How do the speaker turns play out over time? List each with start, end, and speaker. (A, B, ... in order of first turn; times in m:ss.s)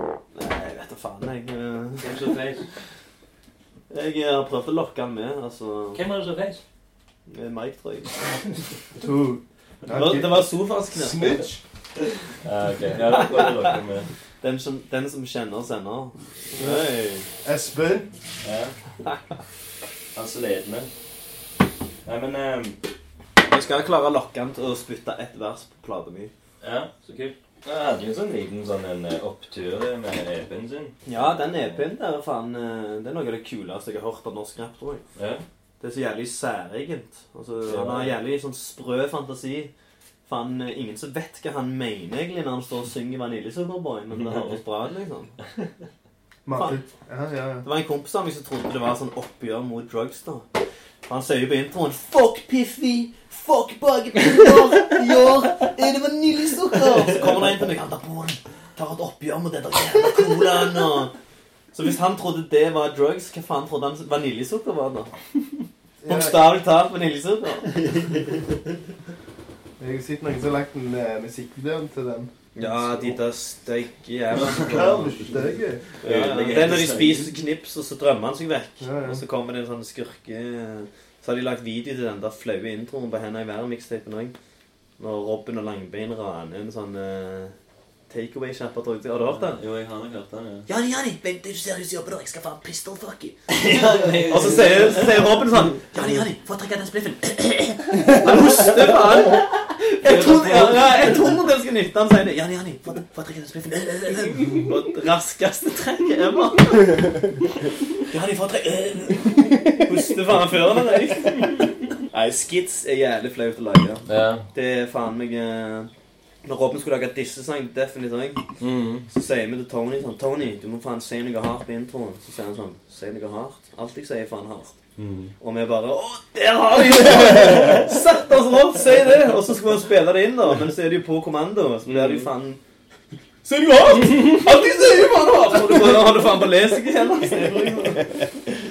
0:00.3-0:02.3 A
0:02.0-0:02.7 B
0:03.9-0:06.0 A
0:05.9-0:06.6 B
0:07.3-0:08.2 A
0:09.0-0:11.6 C
0:09.9-0:11.4 A
0:12.4-0:14.1 B
0:13.0-0:13.8 A
0:14.4-0:17.2 A
0:16.6-0:16.8 C
0:17.4-0:18.1 C
0:18.4-0:18.7 B
0:20.1-0:20.9 B
0:22.0-0:22.8 B
0:23.4-0:26.3 A
0:26.6-0:31.0 B
0:31.0-0:35.0 A
0:31.5-0:31.8 B
0:35.2-0:35.4 B
0:35.8-0:39.7 A
0:37.6-0:38.2 B
0:40.2-0:45.3 A
0:44.1-0:44.6 B
0:46.4-0:47.6 C
0:47.6-0:50.5 A
0:51.0-1:01.1 A
1:01.7-1:05.1 A
1:06.0-1:06.4 C
1:06.1-1:07.7 A
1:07.7-1:08.6 B
1:09.8-1:12.3 C
1:12.6-1:15.3 A
1:14.4-1:14.7 B
1:14.6-1:15.8 C
1:16.0-1:17.3 B
1:16.0-1:24.3 A
1:18.8-1:19.2 C
1:25.0-1:27.6 A
1:28.1-1:29.6 A
1:29.2-1:30.7 B
1:30.7-1:47.2 A
1:33.5-1:35.2 B
1:40.0-1:41.1 B
1:48.0-1:55.9 A
1:54.0-1:54.4 B
1:56.4-1:58.4 A
1:58.6-1:59.1 B
1:59.1-2:04.8 A
2:05.0-2:05.3 B
2:05.4-2:12.6 A
2:13.4-2:18.2 A